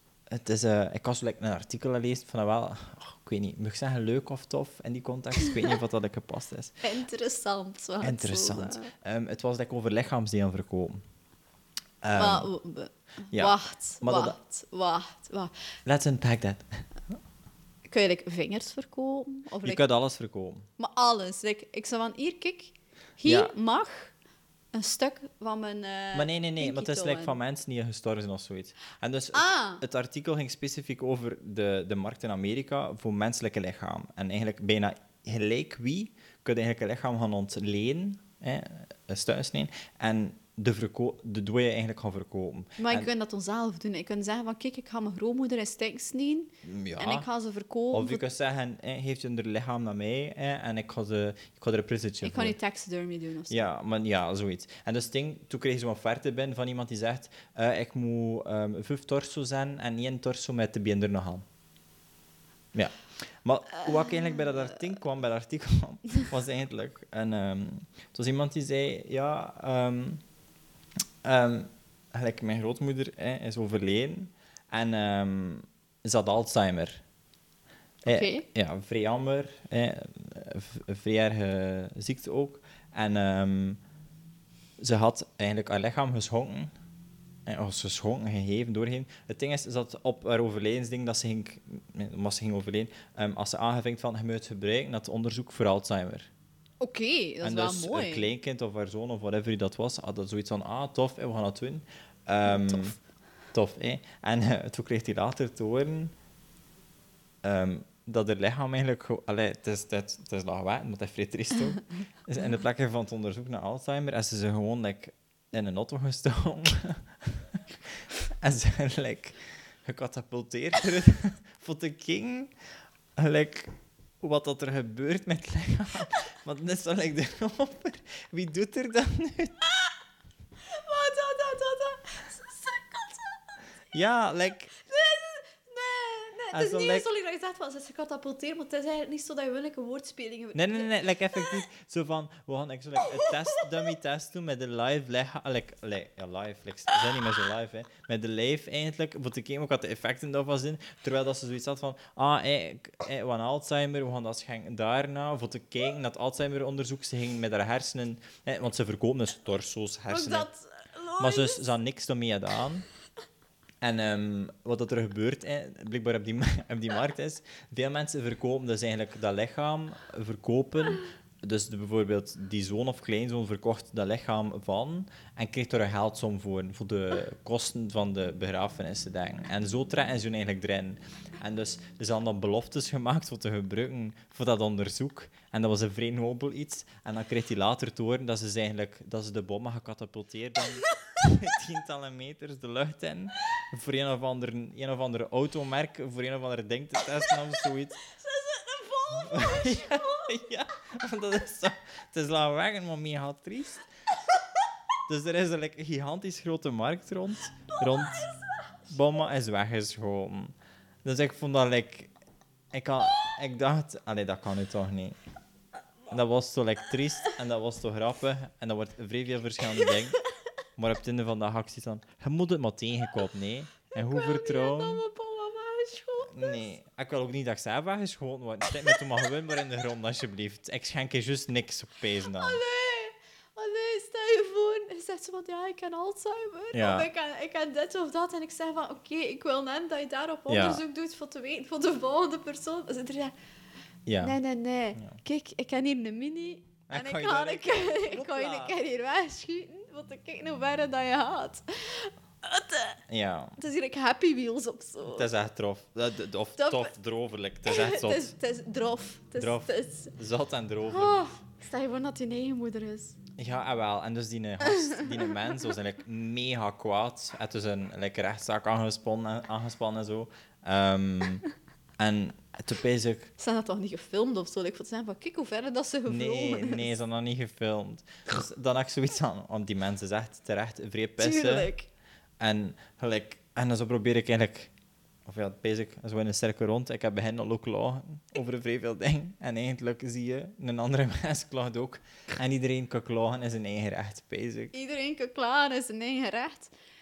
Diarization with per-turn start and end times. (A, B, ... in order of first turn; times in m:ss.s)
0:00.3-0:06.8 A
0:06.8-0:08.9 B
0:08.0-0:11.0 A
0:12.0-0:12.5 A
0:12.1-0:15.5 B
0:13.3-0:14.4 A
0:15.8-0:16.8 A
0:17.9-0:19.8 B
0:19.6-0:20.6 A
0:20.8-0:24.1 B
0:23.2-0:23.5 A
0:24.7-0:27.4 B
0:26.1-0:43.1 A
0:29.3-0:29.8 B
0:42.8-0:48.2 B
0:46.6-0:47.3 A
0:47.9-0:52.6 A
0:52.2-0:53.7 B
0:53.5-1:01.4 A
1:02.7-1:10.2 A
1:11.2-1:17.0 A
1:18.0-1:18.4 B
1:18.0-1:23.8 A
1:24.8-1:26.7 A
1:27.4-1:36.3 A
1:36.8-1:38.3 B
1:37.4-1:43.0 A
1:42.4-1:42.9 B
1:43.5-1:46.1 A
1:47.4-2:09.6 A
2:10.6-2:13.4 B
2:13.9-2:14.7 A
2:14.8-2:20.9 B
2:16.5-2:17.1 A
2:20.5-2:40.5 A
2:40.1-2:41.7 B
2:41.2-2:42.8 A
2:43.8-3:18.0 A
3:18.2-3:20.3 B
3:19.1-3:23.8 A
3:25.1-3:28.3 A
3:28.9-3:32.1 A
3:32.7-3:35.2 A
3:36.1-3:40.2 A
3:40.8-3:45.0 A
3:43.9-3:46.7 B
3:46.3-3:52.6 A
3:52.3-4:03.3 B
3:56.7-3:57.1 A
4:00.5-4:00.8 A
4:04.0-4:04.4 A
4:04.2-4:13.0 B
4:06.9-4:08.8 A
4:13.1-4:13.6 A
4:13.6-4:15.3 B
4:15.1-4:18.3 A
4:16.6-4:16.9 B
4:17.6-4:20.1 B
4:19.4-4:21.1 A
4:20.9-4:23.2 B
4:23.4-4:31.4 A
4:24.7-4:25.7 B
4:32.0-4:33.3 A
4:33.4-4:36.9 B
4:36.1-4:41.7 A
4:41.2-4:41.9 B
4:42.4-4:44.7 A
4:45.2-4:54.7 A
4:54.7-4:56.7 B